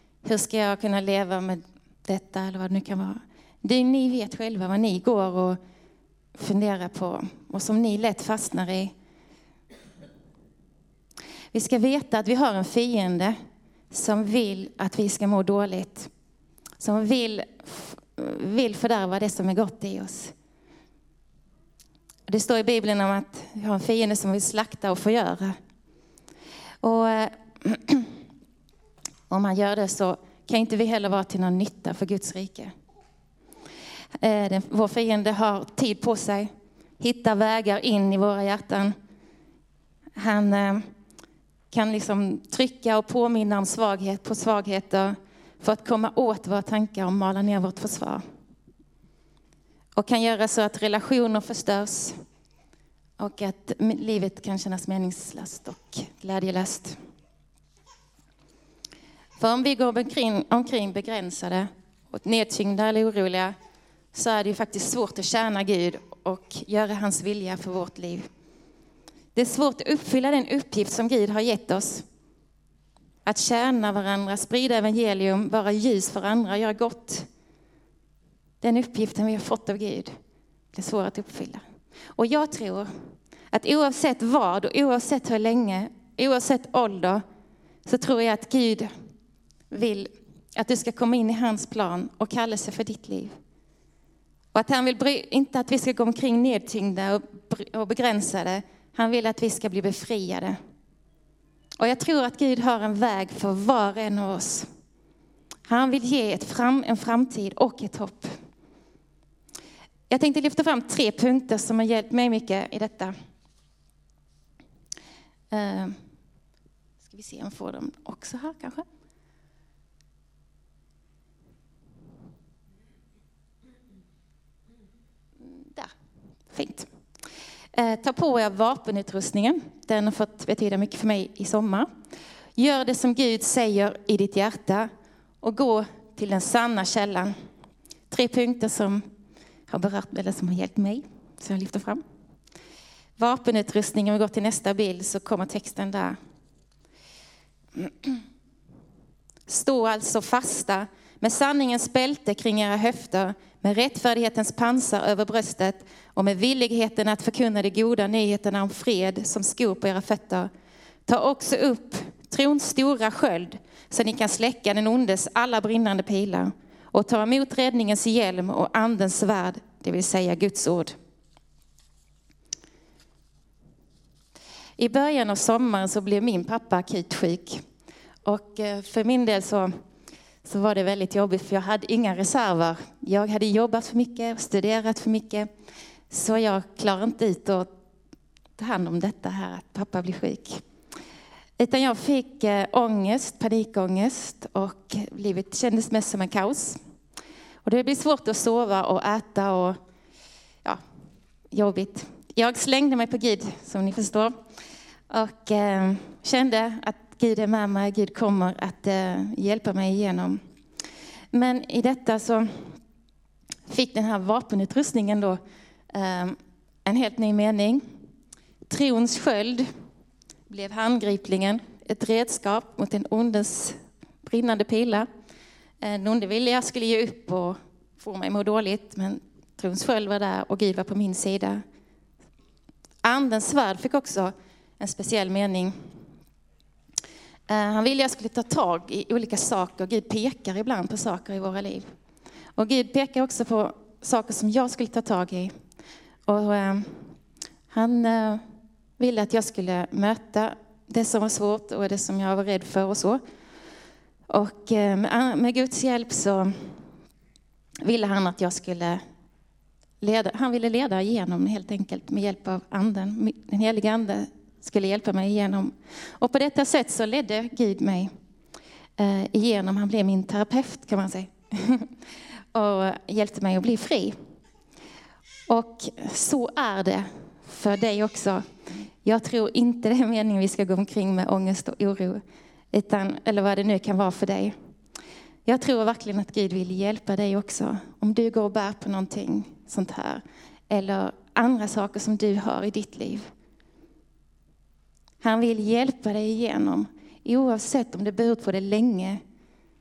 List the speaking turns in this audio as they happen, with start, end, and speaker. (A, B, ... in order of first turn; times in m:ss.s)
0:00.2-0:05.6 A
0:06.4-0:08.9 A
0:11.5-0:13.4 A
0:13.9-0:16.1 A
0:16.8-0:20.3 A
0:22.3-0:25.6 A
0:26.8-0:28.1 A
0:29.3-0:32.7 A
0:34.2-0:39.0 A
0:40.2-0:40.9 A
0:41.7-0:48.2 A
0:50.0-0:52.2 A
0:53.2-0:57.0 A
0:59.4-1:03.6 A
1:04.1-1:08.3 A
1:09.4-1:12.0 A
1:13.2-1:17.3 A
1:18.6-1:20.1 A
1:20.7-1:21.6 A
1:22.2-1:22.9 A
1:23.5-1:27.2 A
1:27.9-1:28.9 A
1:29.7-1:33.4 A
1:34.5-1:40.6 A
1:41.8-1:44.7 A
1:45.7-1:48.3 A
1:50.1-1:53.1 A
1:55.5-1:56.0 A
1:57.0-1:58.8 A
2:05.4-2:05.9 A
2:06.5-2:06.9 A
2:07.7-2:11.9 A
2:12.6-2:14.9 A
2:15.4-2:17.3 A
2:18.1-2:19.0 A
2:19.7-2:22.0 A
2:23.2-2:26.2 A
2:27.8-2:28.2 A
2:29.5-2:40.5 A
2:41.1-2:51.0 A
2:54.8-2:57.6 A
2:58.2-2:59.7 A
3:00.4-3:05.5 A
3:06.1-3:07.7 A
3:08.6-3:10.6 A
3:11.6-3:16.8 A
3:17.6-3:19.8 A
3:21.5-3:24.3 A
3:25.1-3:30.4 A
3:31.3-3:32.8 A
3:33.7-3:35.4 A
3:35.9-3:37.8 A
3:38.7-3:39.7 A
3:40.5-3:45.1 A
3:45.8-3:51.6 A
3:53.0-3:55.7 A
3:57.5-4:01.9 A
4:02.6-4:05.5 A
4:06.3-4:07.1 A
4:07.7-4:08.4 A
4:09.0-4:13.2 A
4:14.3-4:16.8 A
4:17.8-4:19.0 A
4:20.0-4:28.1 A
4:29.0-4:31.9 A
4:32.5-4:34.2 A
4:35.5-4:38.4 A
4:39.0-4:42.2 A
4:42.7-4:44.6 A
4:45.5-4:53.3 A
4:55.2-4:59.2 A